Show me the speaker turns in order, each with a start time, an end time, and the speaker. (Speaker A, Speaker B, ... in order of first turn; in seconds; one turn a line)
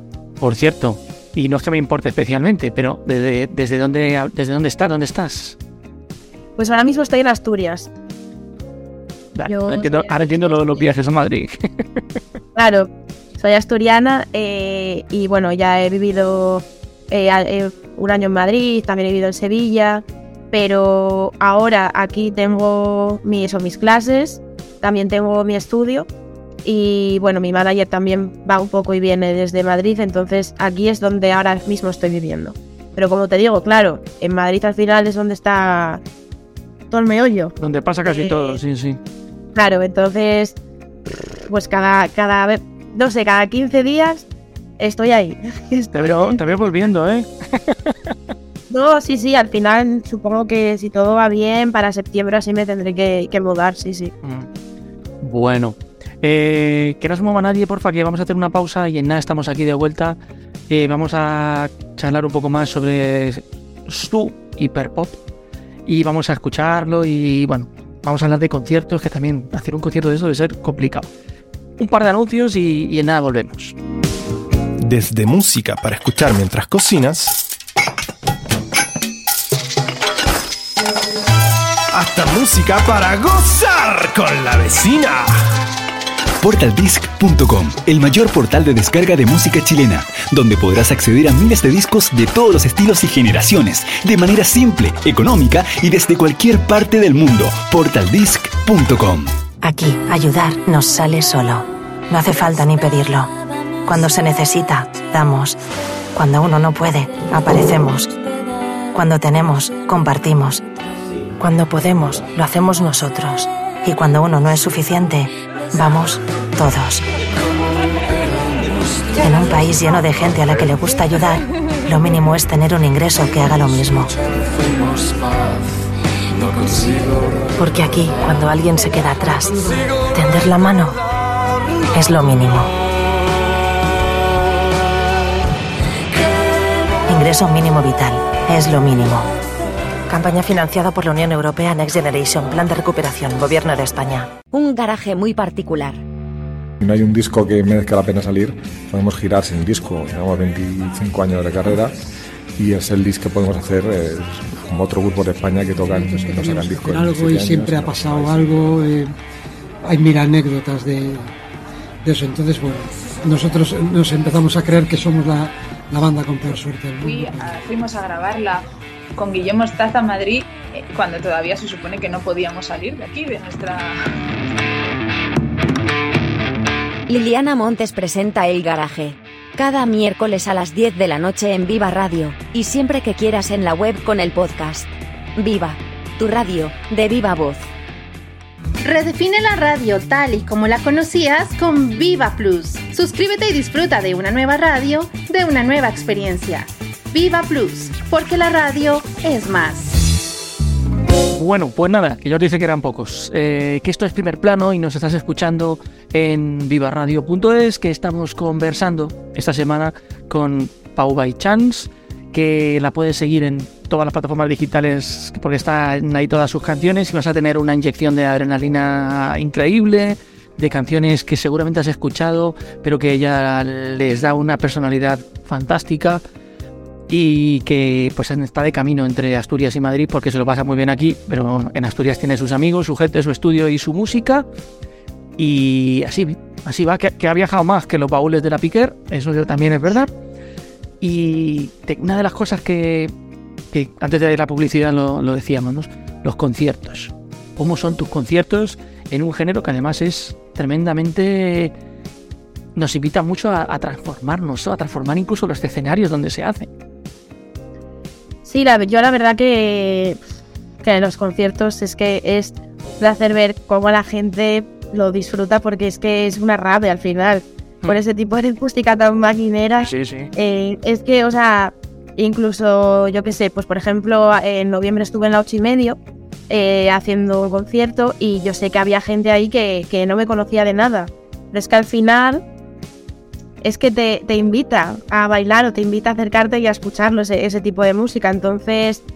Speaker A: 0.4-5.6
Speaker B: 6.6-7.9
Speaker A: 9.3-11.5
Speaker B: 9.5-10.8
Speaker B: 12.6-26.1
Speaker B: 26.6-36.0
Speaker B: 36.9-37.5
Speaker A: 37.6-39.0
Speaker B: 38.0-38.6
Speaker B: 39.5-40.6
Speaker B: 41.5-44.3
Speaker B: 44.8-46.4
Speaker A: 46.0-48.1
Speaker B: 48.7-54.1
Speaker A: 54.2-54.5
Speaker A: 55.2-60.2
Speaker A: 60.7-65.2
Speaker A: 65.9-71.1
Speaker A: 71.8-73.8
Speaker C: 74.8-77.4
Speaker C: 81.9-85.3
Speaker D: 86.4-99.3
Speaker E: 99.6-103.3
Speaker E: 103.8-105.6
Speaker E: 106.2-108.1
Speaker E: 108.9-110.6
Speaker E: 111.4-117.0
Speaker E: 119.2-124.1
Speaker E: 127.6-131.0
Speaker E: 131.9-132.7
Speaker E: 137.1-139.3
Speaker E: 140.1-144.3
Speaker F: 144.5-146.0
Speaker G: 146.8-151.9
Speaker G: 152.6-158.8
Speaker H: 155.9-159.1
Speaker H: 159.8-161.3
Speaker H: 162.0-167.4
Speaker I: 167.0-168.6
Speaker I: 169.2-174.0
Speaker F: 177.1-187.7
Speaker J: 188.8-199.9
Speaker A: 201.3-226.2
Speaker A: 227.1-234.4
Speaker A: 235.4-240.1
Speaker A: 241.0-243.1
Speaker A: 243.7-251.7
Speaker A: 252.8-256.7
Speaker B: 258.4-260.2
Speaker B: 260.8-276.0
Speaker A: 269.8-270.3
Speaker B: 276.5-282.4
Speaker B: 283.6-289.0